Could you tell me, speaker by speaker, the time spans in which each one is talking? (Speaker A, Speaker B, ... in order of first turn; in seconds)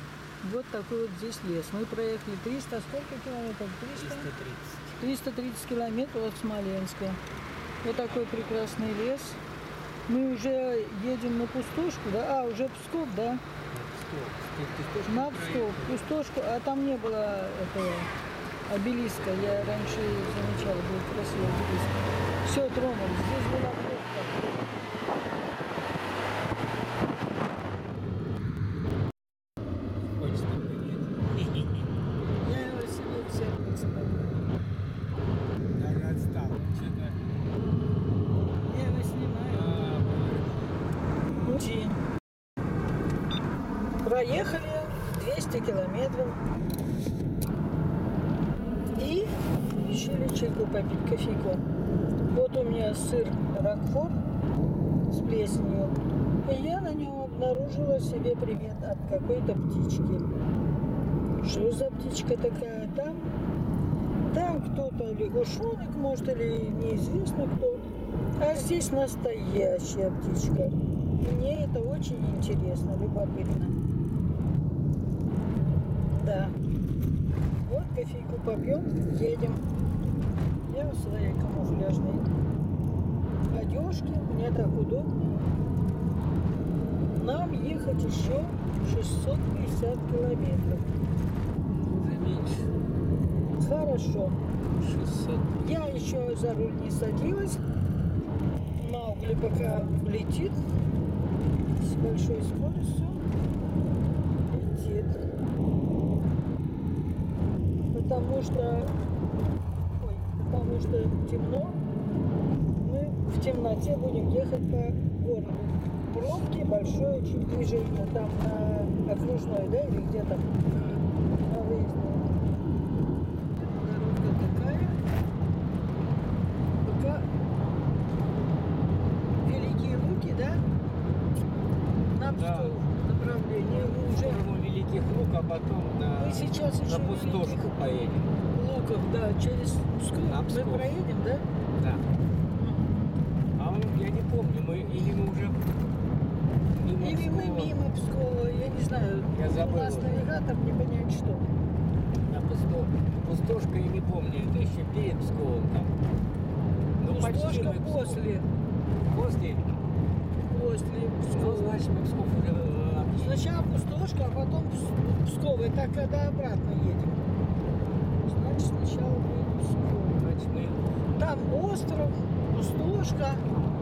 Speaker A: 0.4-4.3, 5.0-7.2, 7.8-9.4, 10.1-13.4, 15.0-18.1, 18.7-24.4, 32.4-34.4, 38.7-40.0, 41.4-42.0, 44.0-46.4, 49.0-49.3, 49.8-51.6, 52.3-54.2, 55.1-60.3, 61.4-63.3, 64.2-67.8, 68.4-73.7, 76.1-76.5, 77.6-79.6, 80.7-82.3, 83.5-85.4, 87.1-90.9, 93.6-94.4, 95.6-97.6, 98.8-100.6, 101.8-103.3, 104.5-105.2, 107.9-108.9, 110.0-111.8, 112.8-122.3, 123.5-125.0, 126.8-127.3, 129.4-130.6, 132.1-134.4, 136.2-137.7, 138.5-141.4, 142.6-142.9, 147.0-151.5, 157.1-158.5, 160.5-161.8, 163.2-167.3, 168.2-170.3, 171.1-173.4
Speaker B: 3.9-4.9, 7.8-8.6, 13.7-16.1, 30.2-31.9, 35.7-37.3, 39.5-40.8, 91.8-92.7, 94.8-95.6, 132.3-132.8, 133.6-138.3, 140.2-141.0, 141.8-142.0, 143.5-145.6, 146.7-147.8, 149.3-150.3, 152.2-155.9, 157.0-158.3, 159.1-159.7, 161.3-163.4, 170.2-170.9